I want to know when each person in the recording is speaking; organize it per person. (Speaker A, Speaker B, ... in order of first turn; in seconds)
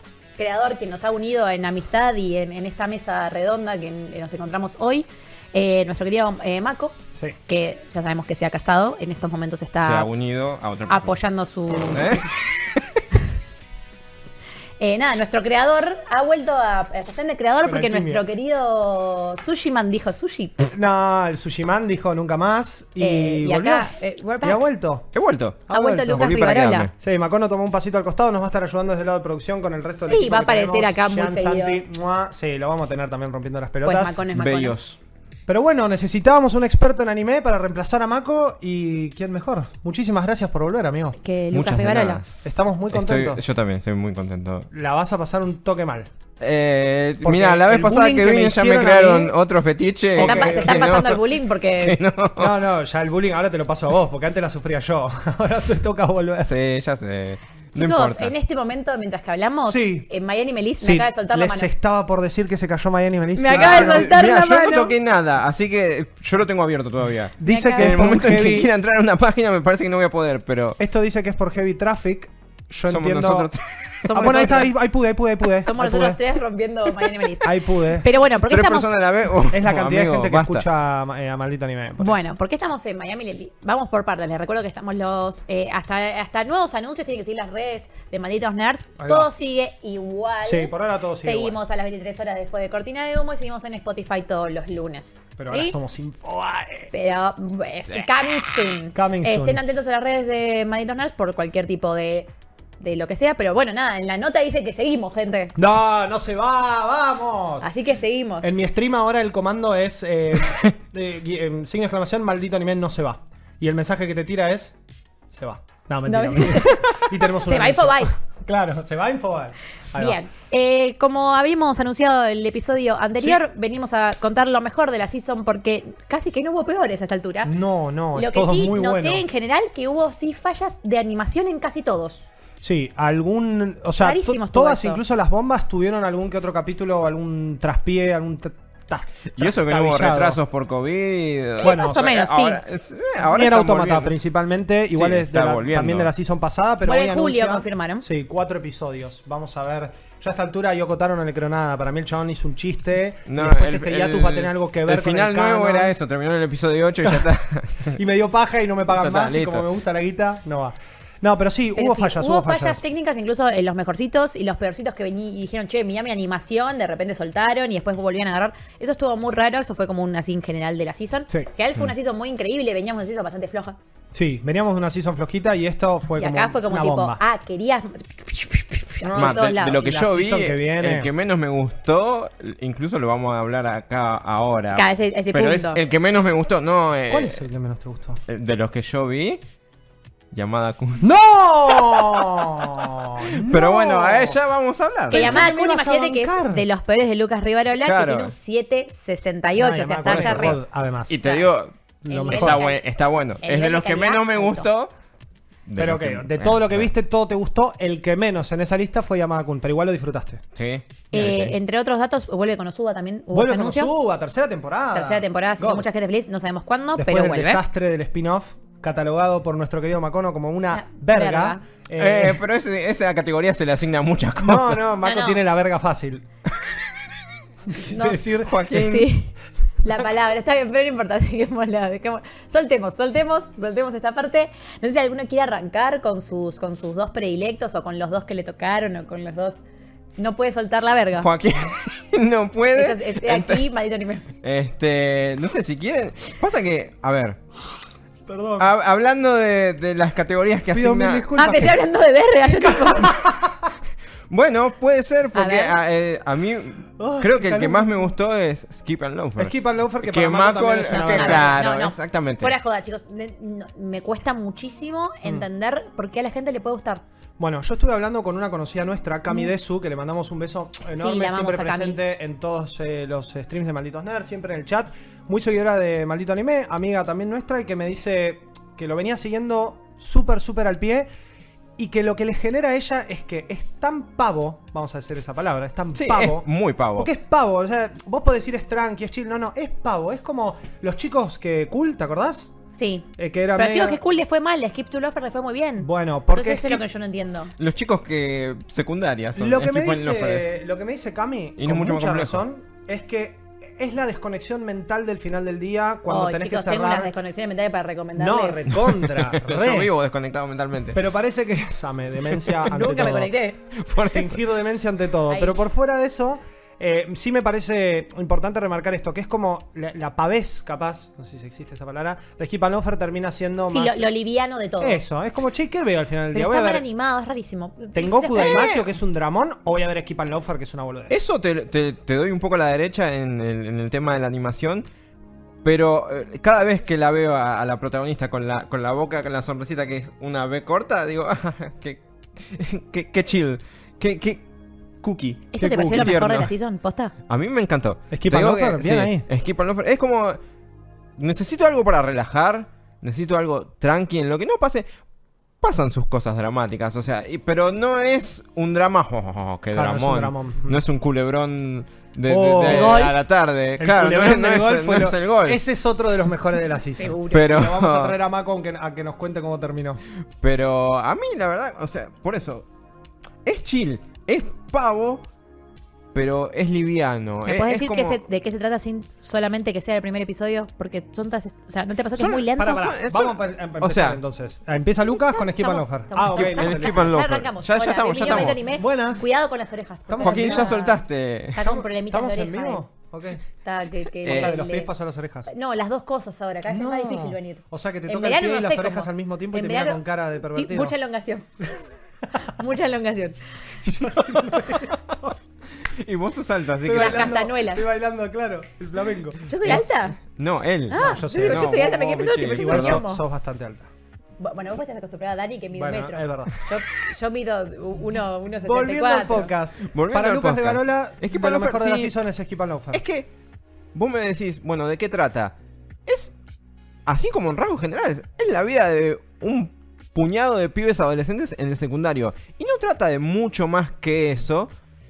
Speaker A: 0.4-6.9, 7.5-10.1, 10.9-12.3, 14.8-20.6, 23.0-24.6, 25.7-26.9, 30.0-31.8, 33.8-34.8, 41.2-42.2, 50.2-52.0, 57.7-61.7, 63.4-64.9, 67.5-68.3, 74.0-74.7, 75.6-78.9, 82.0-95.7, 96.9-105.5, 107.6-108.5, 116.0-118.1, 119.9-127.5, 128.1-132.3, 134.0-135.0, 141.6-142.6, 146.8-148.0, 161.8-173.8, 176.2-179.9, 184.7-185.8, 195.1-200.6, 201.2-201.5, 202.1-202.8, 203.4-204.7, 211.1-213.9, 214.9-217.6, 220.7-221.6, 225.0-225.4, 227.7-229.3, 229.8-239.6, 240.2-241.3, 242.7-244.3, 251.4-253.2, 255.3-255.8, 260.9-267.0, 270.9-272.0, 292.7-297.5, 306.1-308.7, 312.6-313.6, 315.3-315.6, 323.7-325.0, 326.3-328.7, 345.5-347.1, 362.6-363.2, 366.9-367.4, 377.4-382.9, 385.2-391.0, 391.5-392.8, 393.6-394.9, 395.5-400.0, 400.5-401.7, 402.4-403.4, 406.9-407.8, 409.5-410.2, 410.9-413.2, 414.4-419.5
Speaker B: 9.8-11.2, 11.9-13.0, 25.1-26.9, 34.3-35.0, 41.5-44.7, 46.4-52.6, 56.5-58.3, 63.5-70.8, 72.8-74.4, 78.5-80.7, 139.3-144.2, 144.9-146.1, 153.3-158.0, 158.9-159.7, 179.1-187.4, 188.3-189.4, 190.3-191.1, 191.7-195.4, 197.8-198.3, 200.0-204.9, 205.7-206.9, 210.5-211.5, 222.0-224.8, 228.3-229.1, 241.2-243.6, 244.4-247.4, 248.6-251.3, 254.3-262.5, 285.9-287.1, 297.6-300.4, 301.6-302.4, 308.7-311.0, 313.7-314.4, 328.4-328.8, 331.1-334.8, 335.6-344.4, 345.0-346.5, 347.3-350.4, 351.2-354.9, 355.6-365.6, 367.3-368.2, 370.4-372.6, 373.4-375.2, 376.1-378.2, 382.2-384.2, 386.3-388.6, 390.2-391.6, 394.2-394.5, 404.0-405.0, 405.8-407.4, 409.6-413.0, 419.9-422.2, 422.9-423.3, 423.9-426.3, 427.1-434.7
Speaker C: 17.6-18.2, 20.7-23.9, 24.4-25.1, 25.7-26.4, 27.0-34.1, 35.5-41.1, 42.4-43.4, 44.7-46.1, 47.2-49.3, 50.1-51.1, 52.4-56.5, 59.6-60.1, 60.8-64.3, 67.4-68.7, 70.8-73.5, 74.1-76.2, 77.4-78.1, 79.5-82.3, 89.0-89.3, 90.4-91.6, 95.4-96.9, 98.9-99.6, 105.5-107.7, 108.4-114.8, 115.3-120.2, 127.4-129.2, 132.6-140.4, 141.6-142.2, 143.2-155.9, 157.9-162.8, 174.1-177.2, 179.0-181.1, 187.1-188.2, 191.0-194.4, 195.1-196.6, 199.6-201.1, 202.2-202.6, 205.8-210.4, 213.3-215.9, 216.9-222.4, 224.4-226.2, 227.7-228.7, 248.3-248.7, 250.7-251.9, 252.5-253.7, 257.0-258.1, 259.4-261.6, 267.4-281.1, 281.8-286.4, 286.9-292.5, 293.1-294.0, 295.8-296.8, 299.4-307.1, 308.2-309.9, 310.9-313.3, 313.9-324.1, 324.8-326.8, 327.9-331.1, 345.6-346.2, 348.1-349.2, 359.7-360.8, 362.3-363.1, 363.8-370.0, 382.6-387.2, 388.2-389.3, 390.1-390.8, 391.6-393.4, 394.2-395.5, 396.7-400.9, 403.8-405.4, 406.8-409.8, 411.0-411.9, 412.5-413.9, 415.7-416.5, 418.6-423.0